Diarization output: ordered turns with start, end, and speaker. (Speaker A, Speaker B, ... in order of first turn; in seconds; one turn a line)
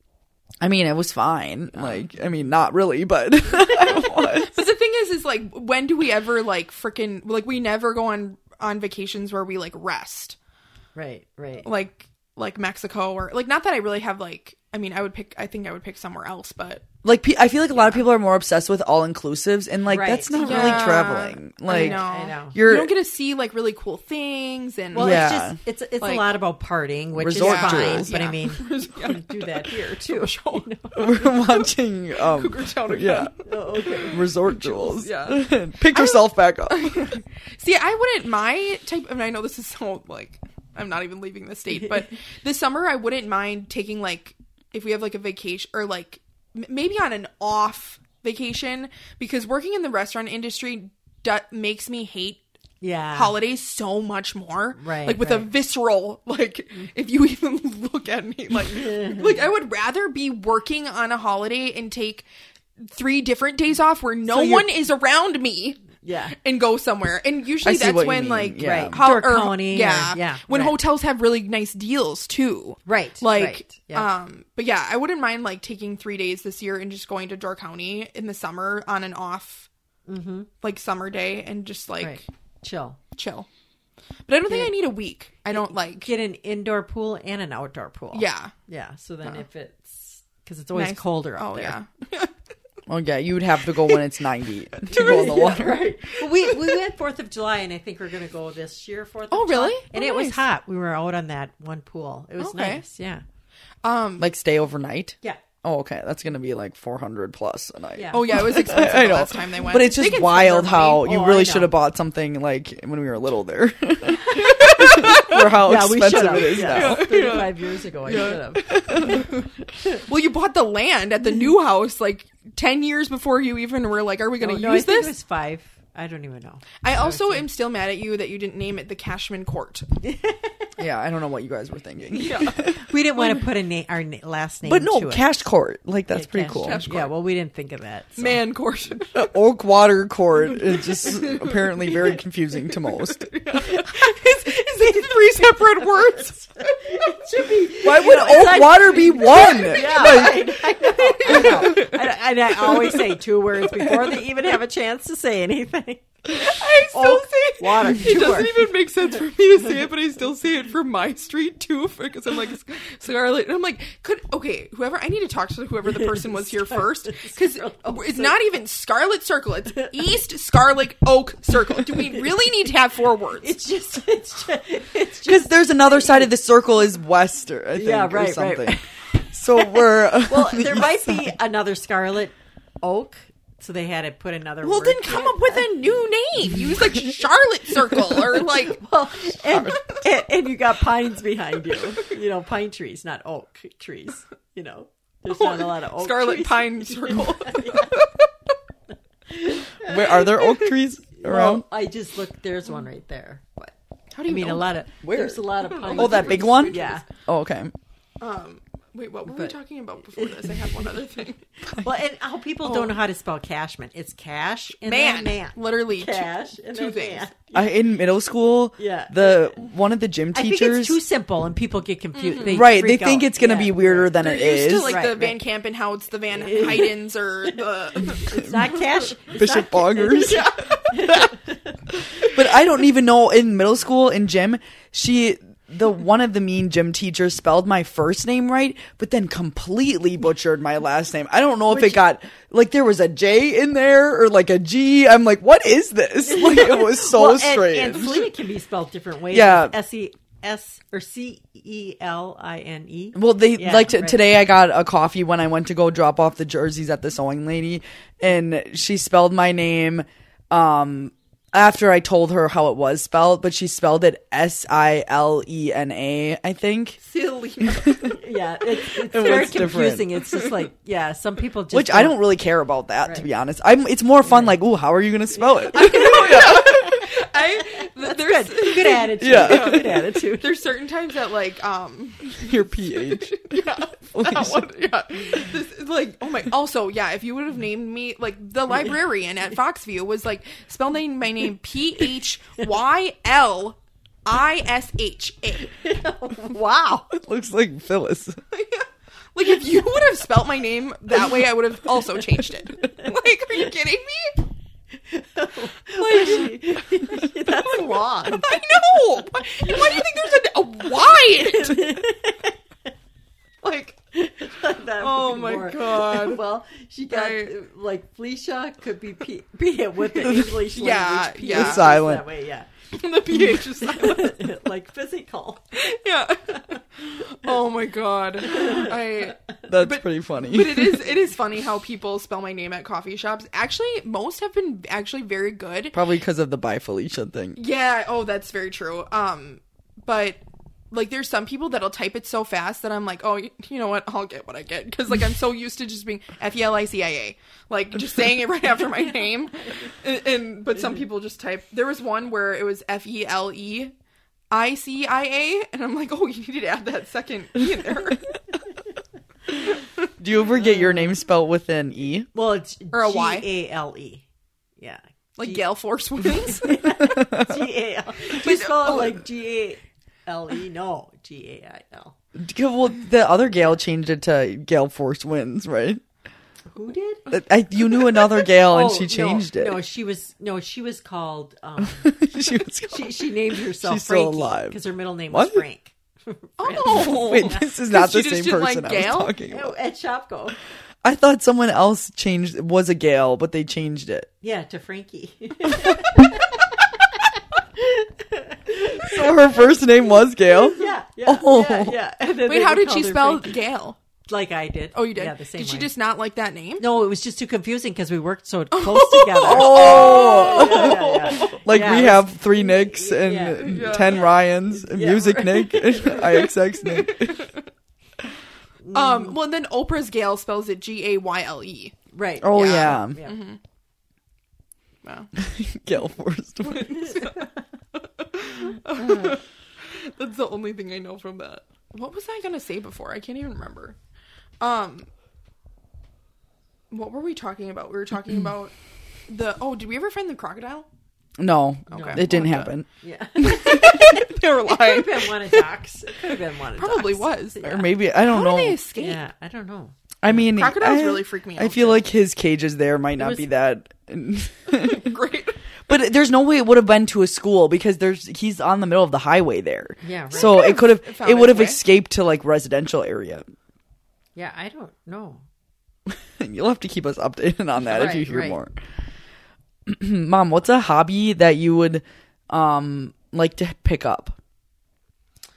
Speaker A: 0.6-4.6
Speaker B: 3.9-10.4
Speaker C: 10.9-11.7
Speaker B: 11.6-16.9
Speaker A: 17.0-22.9
Speaker C: 19.9-21.0
Speaker B: 20.4-25.3
Speaker C: 21.7-22.6
Speaker C: 24.9-31.2
Speaker A: 25.0-25.6
Speaker B: 26.0-26.3
Speaker A: 27.2-28.1
Speaker B: 27.4-30.7
Speaker A: 31.0-33.3
Speaker B: 31.3-52.4
Speaker C: 33.4-34.2
Speaker A: 34.0-37.1
Speaker C: 52.8-53.4
Speaker B: 53.1-62.3
Speaker C: 54.8-55.5
Speaker C: 58.7-59.5
Speaker B: 62.8-79.7
Speaker C: 64.3-64.7
Speaker C: 66.0-66.4
Speaker A: 67.6-69.0
Speaker C: 68.6-70.8
Speaker C: 72.9-74.1
Speaker C: 80.1-80.5
Speaker B: 80.6-82.2
Speaker C: 82.0-83.0
Speaker B: 83.2-83.5
Speaker B: 84.3-86.1
Speaker C: 84.5-84.7
Speaker C: 85.5-91.8
Speaker B: 88.1-88.5
Speaker B: 90.7-92.3
Speaker A: 92.9-96.0
Speaker C: 94.9-103.2
Speaker B: 95.0-95.4
Speaker B: 99.3-100.4
Speaker B: 102.4-102.8
Speaker B: 103.8-104.3
Speaker A: 104.2-117.1
Speaker C: 108.0-108.4
Speaker B: 108.1-111.1
Speaker C: 111.0-111.7
Speaker C: 114.3-119.3
Speaker B: 114.4-115.5
Speaker B: 116.7-125.1
Speaker A: 118.7-119.3
Speaker C: 124.4-127.5
Speaker B: 126.8-129.9
Speaker C: 130.0-130.5
Speaker A: 130.8-132.8
Speaker B: 132.1-133.4
Speaker C: 132.6-135.3
Speaker A: 134.7-136.8
Speaker C: 136.1-138.4
Speaker B: 136.6-137.2
Speaker B: 138.2-139.3
Speaker A: 139.1-143.3
Speaker B: 140.5-146.8
Speaker C: 144.8-158.6
Speaker A: 147.8-150.7
Speaker B: 148.0-148.6
Speaker B: 149.2-150.3
Speaker B: 151.0-152.1
Speaker B: 152.6-153.0
Speaker B: 153.8-154.2
Speaker B: 156.3-173.5
Speaker C: 166.0-168.4
Speaker C: 171.9-172.2
Speaker C: 173.4-176.3
Speaker A: 175.3-181.3
Speaker C: 177.8-185.8
Speaker B: 184.6-188.9
Speaker C: 188.4-197.9
Speaker A: 189.5-189.8
Speaker B: 195.3-198.3
Speaker C: 199.3-200.3
Speaker A: 199.8-201.7
Speaker B: 200.4-200.7
Speaker C: 201.2-203.7
Speaker B: 204.1-204.8
Speaker C: 204.2-207.0
Speaker A: 205.0-207.7
Speaker B: 205.6-207.1
Speaker B: 208.2-211.4
Speaker C: 209.3-209.6
Speaker C: 210.1-211.2
Speaker C: 211.7-217.7
Speaker B: 212.6-213.0
Speaker B: 214.8-217.3
Speaker A: 217.5-221.0
Speaker C: 218.8-219.6
Speaker C: 220.3-224.2
Speaker B: 222.2-222.6
Speaker A: 222.5-225.0
Speaker B: 224.1-228.4
Speaker C: 224.8-225.4
Speaker C: 226.3-231.8
Speaker A: 228.3-230.5
Speaker B: 230.2-231.2
Speaker A: 231.9-248.3
Speaker C: 241.7-242.0
Speaker C: 246.2-254.2
Speaker A: 249.3-249.8
Speaker A: 253.2-267.0
Speaker B: 267.0-268.2
Speaker A: 267.6-268.1
Speaker C: 268.0-272.2
Speaker A: 268.9-270.2
Speaker A: 271.7-277.0
Speaker C: 274.2-274.6
Speaker C: 275.4-280.6
Speaker B: 275.7-295.8
Speaker A: 279.2-279.9
Speaker A: 282.3-284.6
Speaker C: 295.7-297.1
Speaker A: 297.1-298.4
Speaker B: 298.5-304.4
Speaker C: 304.9-308.8
Speaker B: 305.9-306.9
Speaker B: 307.5-312.1
Speaker C: 309.4-310.1
Speaker C: 311.3-312.5
Speaker B: 313.6-314.0
Speaker C: 314.1-322.7
Speaker B: 315.0-316.4
Speaker B: 317.1-317.5
Speaker A: 320.2-320.5
Speaker B: 320.7-321.9
Speaker A: 321.5-322.2
Speaker B: 322.9-324.5
Speaker C: 323.8-325.8
Speaker B: 325.7-336.0
Speaker C: 326.5-326.8
Speaker C: 328.5-328.9
Speaker A: 329.7-331.1
Speaker A: 335.9-337.6
Speaker B: 337.6-353.9
Speaker B: 354.5-358.3
Speaker A: 360.2-362.3
Speaker C: 360.6-361.2
Speaker C: 362.3-364.2
Speaker B: 362.9-363.5
Speaker C: 364.8-365.6
Speaker B: 365.4-367.0
Speaker C: 366.4-372.1
Speaker A: 367.2-367.5
Speaker B: 368.3-369.2
Speaker A: 372.4-376.0
Speaker C: 376.7-377.3
Speaker A: 377.3-379.8
Speaker C: 378.7-382.1
Speaker A: 381.8-384.8
Speaker C: 382.9-387.7
Speaker A: 385.3-385.6
Speaker B: 386.6-389.3
Speaker A: 386.9-389.8
Speaker C: 389.5-390.6
Speaker A: 391.0-394.3
Speaker C: 394.4-399.4
Speaker A: 399.0-402.0
Speaker C: 400.4-403.6
Speaker B: 402.4-404.0
Speaker C: 404.3-405.9
Speaker B: 404.9-406.9
Speaker C: 406.8-416.5
Speaker B: 408.7-411.6
Speaker A: 409.4-417.5
Speaker B: 413.6-414.3
Speaker B: 416.3-417.6
Speaker C: 418.8-419.4
Speaker B: 418.9-422.0
Speaker C: 422.1-423.4
Speaker A: 422.4-423.2
Speaker B: 422.6-423.6
Speaker B: 425.0-425.3
Speaker A: 425.4-427.1
Speaker B: 426.6-434.0
Speaker C: 427.1-427.4
Speaker B: 434.6-435.1
Speaker B: 436.9-438.7
Speaker B: 439.3-440.9
Speaker A: 441.4-442.9
Speaker B: 441.9-442.7
Speaker C: 441.9-442.4
Speaker C: 443.0-447.9
Speaker A: 443.4-444.0
Speaker B: 443.4-445.6
Speaker B: 446.3-447.6
Speaker A: 447.6-448.8
Speaker B: 448.2-449.2
Speaker C: 448.9-449.9
Speaker A: 450.2-455.1
Speaker B: 450.4-452.1
Speaker C: 453.2-453.5
Speaker B: 454.7-455.6
Speaker A: 455.9-463.5
Speaker C: 460.0-460.7
Speaker B: 460.3-461.8
Speaker C: 464.4-465.4
Speaker A: 466.1-468.7
Speaker C: 467.8-468.6
Speaker A: 469.9-474.4